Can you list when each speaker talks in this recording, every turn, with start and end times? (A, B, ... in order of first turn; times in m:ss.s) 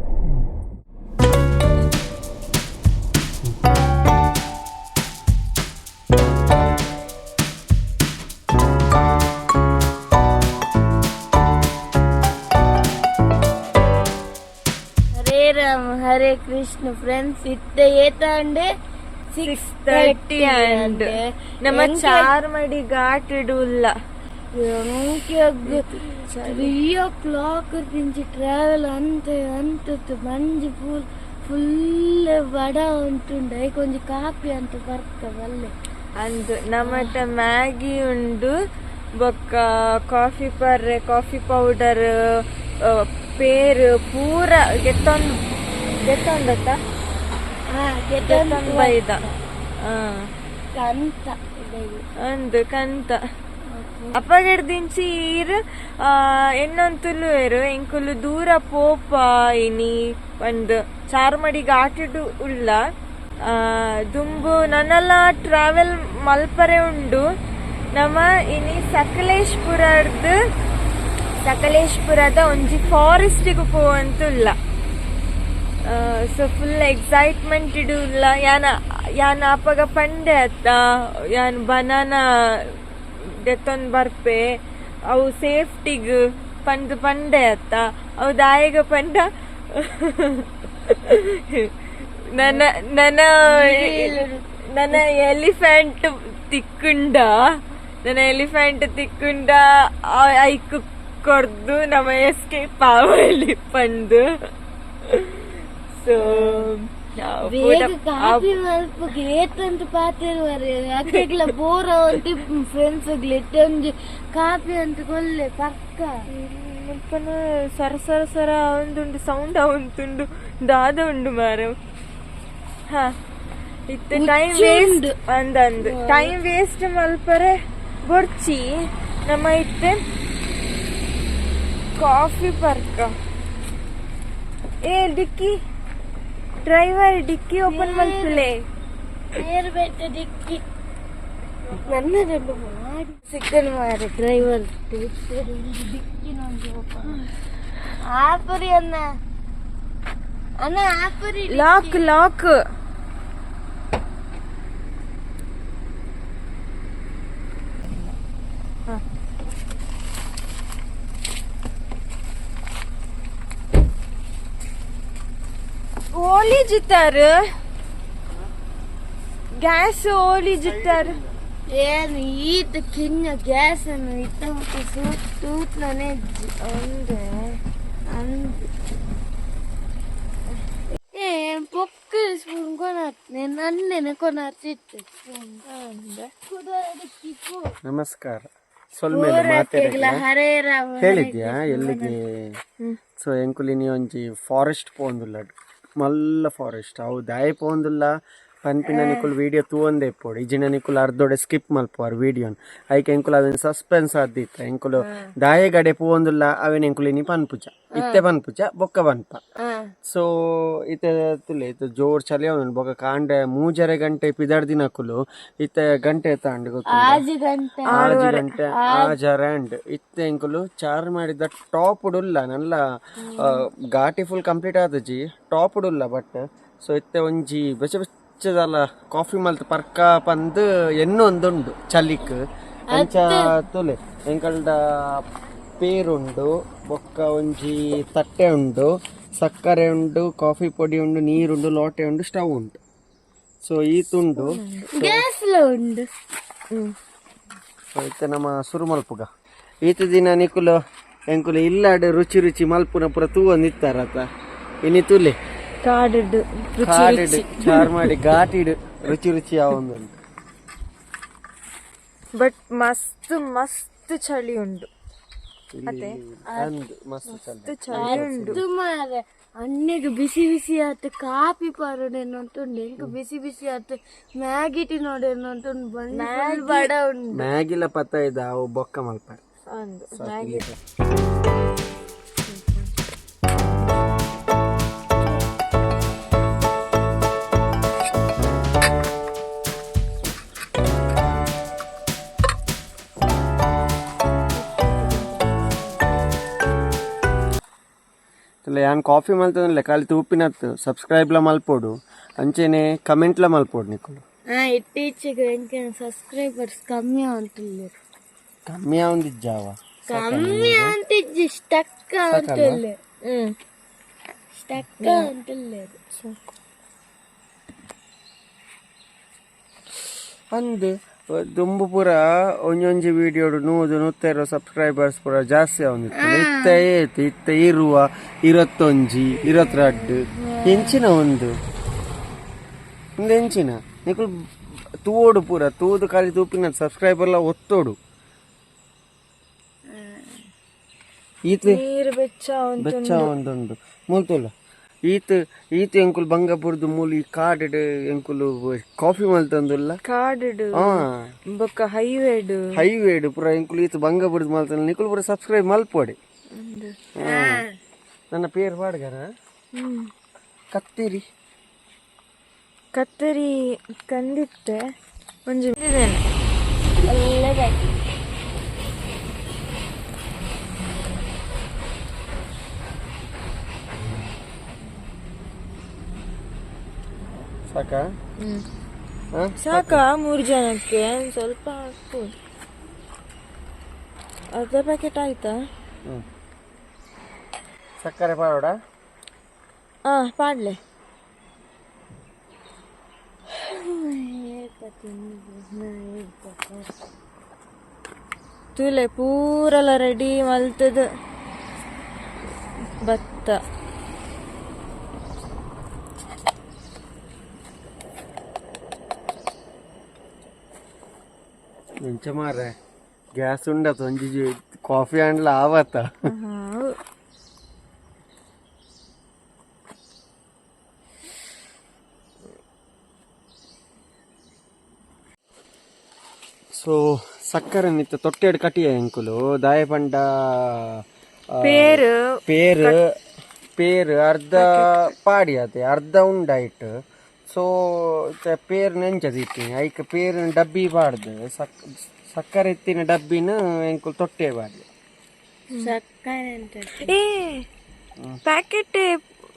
0:15.2-0:18.7 A
0:19.3-0:22.3 A
0:19.4-0:21.1 B
0:21.6-0:23.9 B
0:24.5-0:35.7 A
0:25.6-0:26.7 B
0:36.2-0:38.5 B
0:36.8-0:37.2 A
0:39.2-0:45.4 B
0:46.0-0:46.8 B
0:47.7-0:49.4 A
0:48.2-0:49.3 B
0:49.8-0:50.3 B
0:50.7-0:52.1 A
0:52.2-0:53.2 B
0:53.7-0:54.2 A
0:54.2-1:02.8 B
1:03.5-1:07.2 B
1:08.0-1:10.4 B
1:11.4-1:14.6 B
1:15.9-1:20.8 B
1:21.3-1:24.6 B
1:25.1-1:31.7 B
1:32.4-1:34.2 B
1:32.4-1:32.6 A
1:33.5-1:35.0 A
1:34.7-1:37.4 B
1:38.0-1:44.2 B
1:45.0-1:48.5 B
1:46.2-1:46.7 A
1:47.4-1:56.2 A
1:56.3-2:01.8 B
2:02.9-2:03.2 B
2:03.9-2:08.7 B
2:04.1-2:05.1 A
2:05.8-2:06.4 A
2:09.2-2:10.0 B
2:12.0-2:13.1 B
2:14.8-2:15.6 B
2:16.6-2:18.6 B
2:17.7-2:18.5 A
2:19.3-2:20.6 A
2:21.7-2:27.2 A
2:28.1-2:29.1 A
2:30.6-2:32.0 A
2:31.5-2:32.6 B
2:46.1-2:47.4 B
2:49.6-2:51.2 B
2:50.6-2:51.4 C
2:51.7-2:56.5 A
2:56.6-2:57.6 B
2:58.1-2:58.6 A
3:01.0-3:05.6 A
3:05.7-3:06.3 B
3:06.5-3:07.7 A
3:07.8-3:10.2 C
3:09.1-3:12.2 A
3:11.0-3:12.6 C
3:13.2-3:29.4 C
3:18.9-3:19.3 A
3:25.0-3:25.3 A
3:28.0-3:28.2 A
3:29.6-3:29.9 A
3:30.0-3:37.2 C
3:36.9-3:38.1 A
3:37.9-3:42.8 C
3:37.9-3:38.5 B
3:38.8-3:39.1 A
3:43.3-3:43.6 A
3:43.4-3:55.2 C
3:52.9-3:53.5 A
3:55.8-4:02.8 C
4:03.6-4:05.2 C
4:04.3-4:04.9 B
4:04.9-4:06.1 A
4:08.0-4:09.3 C
4:09.8-4:10.8 C
4:11.3-4:14.3 C
4:14.8-4:15.4 C
4:15.8-4:18.2 B
4:16.8-4:20.2 C
4:22.4-4:24.9 B
4:25.7-4:28.6 C
4:25.9-4:26.2 B
4:27.4-4:28.6 B
4:28.0-4:37.4 A
4:36.1-4:36.9 B
4:37.3-4:39.4 C
4:39.8-4:40.6 B
4:40.1-4:40.8 C
4:54.8-4:55.3 A
4:54.8-4:55.3 B
4:58.6-5:04.2 C
5:04.5-5:08.0 A
5:08.7-5:11.0 C
5:10.1-5:13.0 A
5:12.3-5:12.8 C
5:13.2-5:13.6 B
5:14.5-5:16.0 A
5:15.0-5:15.3 B
5:20.5-5:31.5 C
5:26.2-5:26.8 A
5:29.7-5:30.1 A
5:33.2-5:34.4 C
5:35.0-5:38.0 C
5:39.9-5:40.4 A
5:41.5-5:41.8 C
5:41.6-5:43.3 B
5:42.8-5:44.5 C
5:45.1-5:50.0 C
5:50.1-5:52.7 B
5:50.7-5:51.3 C
5:52.7-5:56.2 C
5:56.5-5:57.0 B
5:57.2-5:57.6 C
5:57.2-5:57.8 A
5:58.3-5:59.3 C
5:59.7-6:00.1 B
6:00.7-6:01.3 C
6:03.0-6:04.8 B
6:05.5-6:06.2 B
6:07.0-6:07.9 A
6:17.7-6:18.1 C
6:18.4-6:18.6 B
6:19.3-6:20.0 C
6:19.6-6:22.3 B
6:24.6-6:25.6 B
6:28.0-6:28.8 C
6:30.1-6:30.8 B
6:33.5-6:36.9 A
6:38.8-6:41.1 B
6:43.0-6:43.6 B
6:52.0-6:52.8 C
6:53.4-6:56.2 C
6:56.3-6:57.0 B
7:06.7-7:13.1 C
7:11.6-7:13.0 B
7:13.8-7:16.9 C
7:14.6-7:15.0 B
7:17.5-7:24.9 C
7:25.8-7:27.1 A
7:27.0-7:27.7 B
7:28.5-7:29.2 B